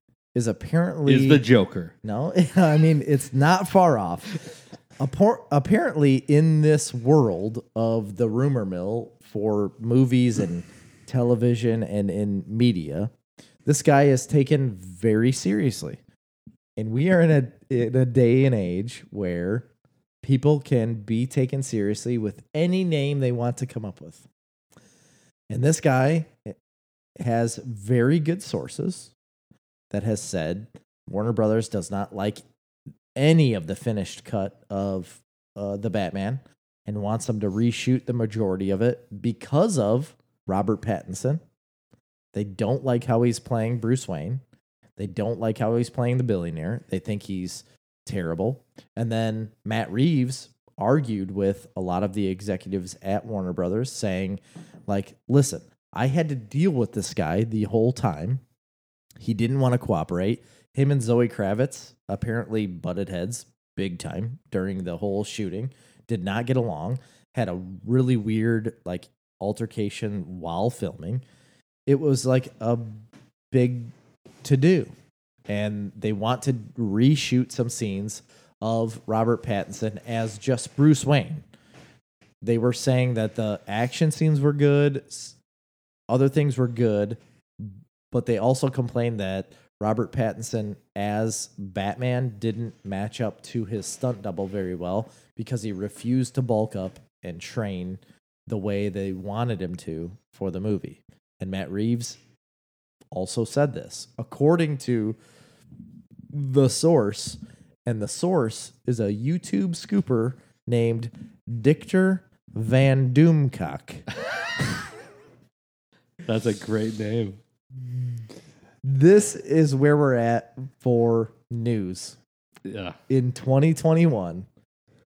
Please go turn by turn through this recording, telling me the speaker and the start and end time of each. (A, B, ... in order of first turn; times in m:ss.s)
0:00.3-0:01.4 A
0:01.0-0:01.9 B
0:02.0-0:13.1 A
0:13.6-0:16.0 A
0:16.8-0:19.7 A
0:20.2-0:24.2 A
0:25.5-0:26.6 A
0:27.2-0:29.1 A
0:29.9-0:32.4 A
0:33.1-0:41.4 A
0:42.3-0:44.4 A
0:45.0-0:58.4 A
0:59.2-1:11.2 A
1:11.9-1:13.9 A
1:14.4-1:14.9 A
1:15.5-1:21.4 A
1:22.4-1:25.4 A
1:26.1-1:42.2 A
1:43.1-1:45.2 A
1:46.3-1:54.0 A
1:56.2-1:57.4 B
1:58.8-2:02.2 A
2:02.6-2:03.0 B
2:03.1-2:04.5 A